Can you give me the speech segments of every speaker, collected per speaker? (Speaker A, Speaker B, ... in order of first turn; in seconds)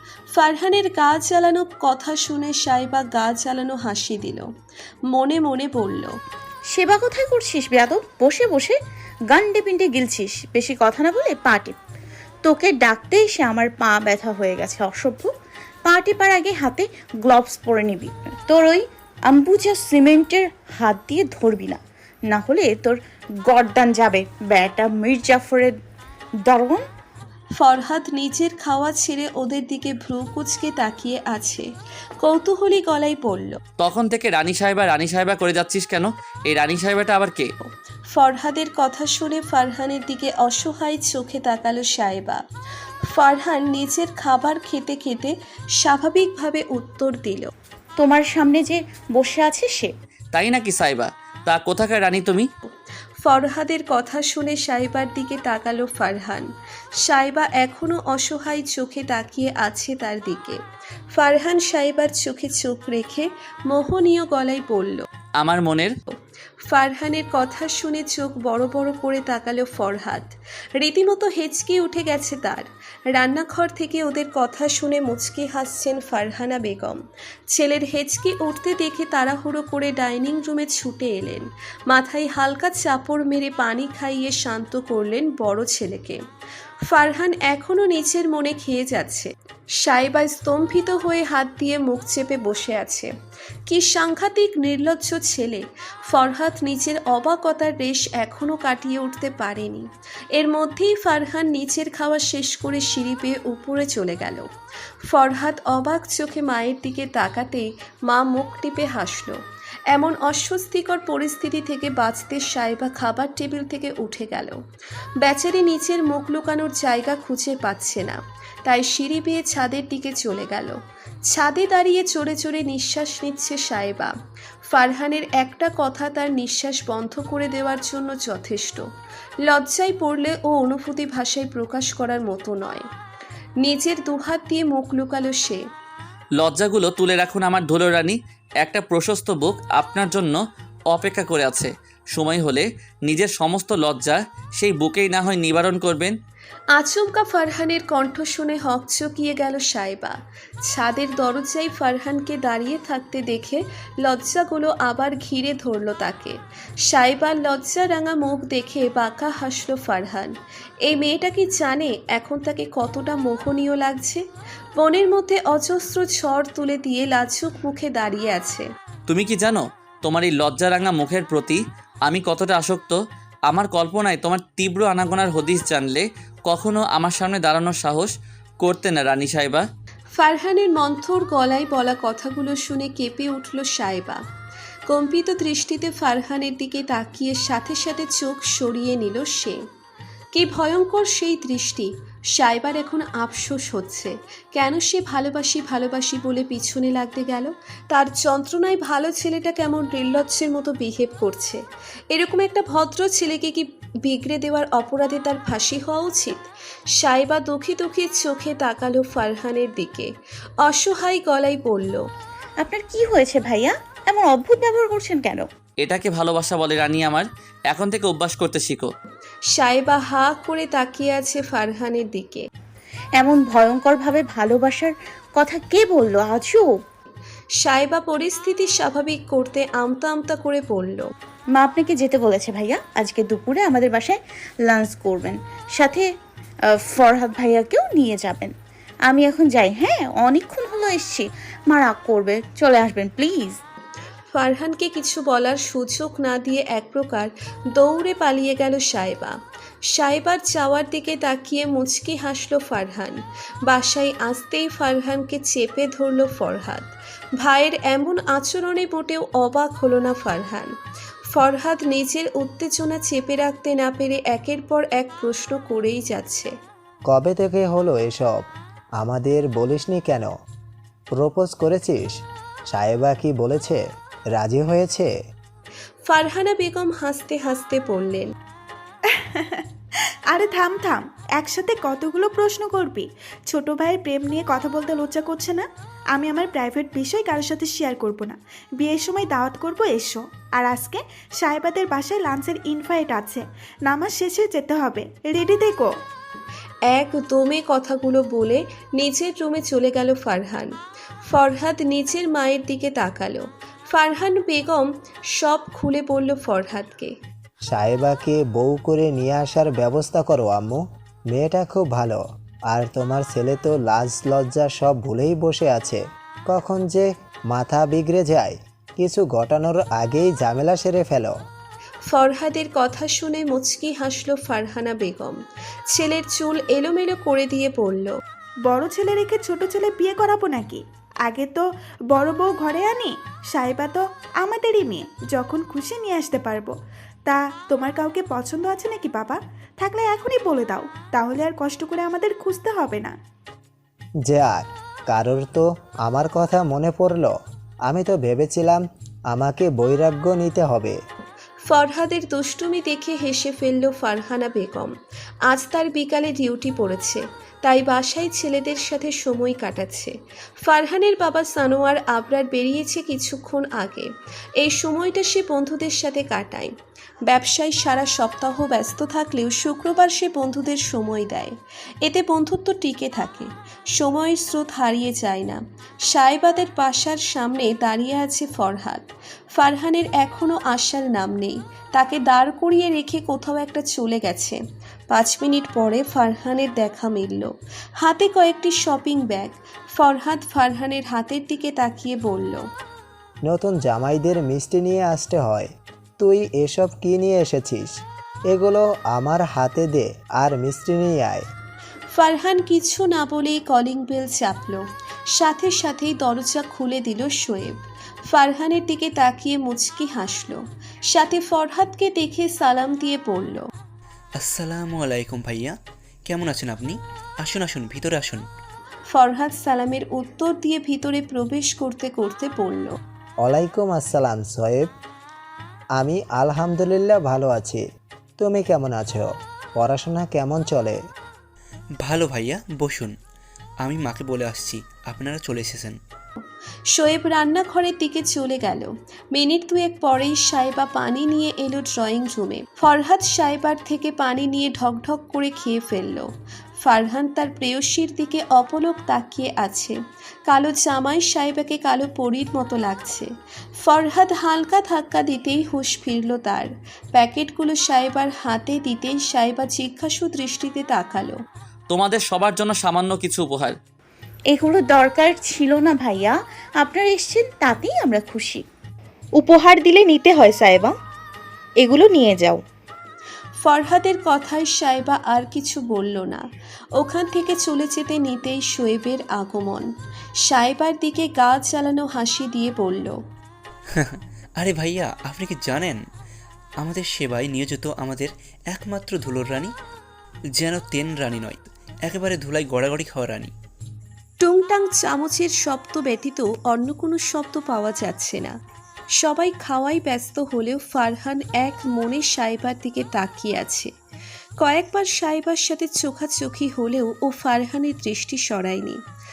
Speaker A: 0.3-4.5, 5.1-6.1, 27.6-31.7, 32.2-33.6, 37.6-42.4, 43.1-47.5, 53.2-56.5, 57.0-60.6, 61.1-65.0, 66.7-77.0, 77.5-86.2, 86.9-89.3, 89.8-93.1, 93.7-104.5, 105.0-109.4, 109.9-114.6, 115.2-120.8, 121.3-124.1, 124.7-128.8, 129.4-132.8, 133.6-135.6, 146.7-160.3, 160.8-164.2, 164.8-168.7, 180.2-184.2, 184.9-189.6, 190.3-201.6, 202.1-206.4, 207.0-210.1, 210.6-212.0, 219.5-222.4, 227.6-231.1, 244.3-249.3, 249.9-260.7, 261.3-266.5, 276.1-278.3, 296.9-300.7, 301.3-307.1, 322.1-325.4, 325.9-328.1, 351.6-354.9, 355.5-364.1, 364.6-366.7, 367.2-392.6, 402.1-404.8, 405.3-407.7, 408.3-413.6, 419.1-422.9, 436.9-446.3, 446.8-453.3, 453.8-461.4, 473.6-476.4, 477.0-479.9, 480.4-483.2, 494.4-498.5, 499.2-503.9, 504.6-509.0
Speaker B: 6.7-8.8, 9.3-11.8, 12.4-15.3, 15.8-25.7, 26.4-26.8, 48.0-49.9, 212.6-215.5, 223.2-226.8, 231.5-236.1, 236.7-238.5, 239.1-243.6, 464.5-468.6
Speaker C: 33.8-37.5, 50.3-52.5, 65.4-65.9, 136.4-140.4, 140.9-146.1, 169.1-173.0, 173.5-179.6, 215.8-218.9, 461.9-463.7
Speaker D: 267.1-268.4, 269.0-270.3, 271.1-272.2, 272.7-273.8, 274.4-275.1, 307.7-312.2, 312.7-321.3, 344.2-347.3, 347.9-351.0, 393.4-395.7, 396.2-397.9, 398.5-401.4, 423.4-424.9, 426.0-427.8, 428.4-429.3, 429.8-431.0
Speaker E: 279.2-279.6, 280.3-295.9, 328.6-336.7, 337.2-343.1
Speaker F: 414.4-415.7, 416.3-418.4, 432.0-433.1, 433.8-436.0, 484.0-486.0, 486.8-489.7, 490.6-493.5
Speaker G: 469.4-470.9, 471.8-472.6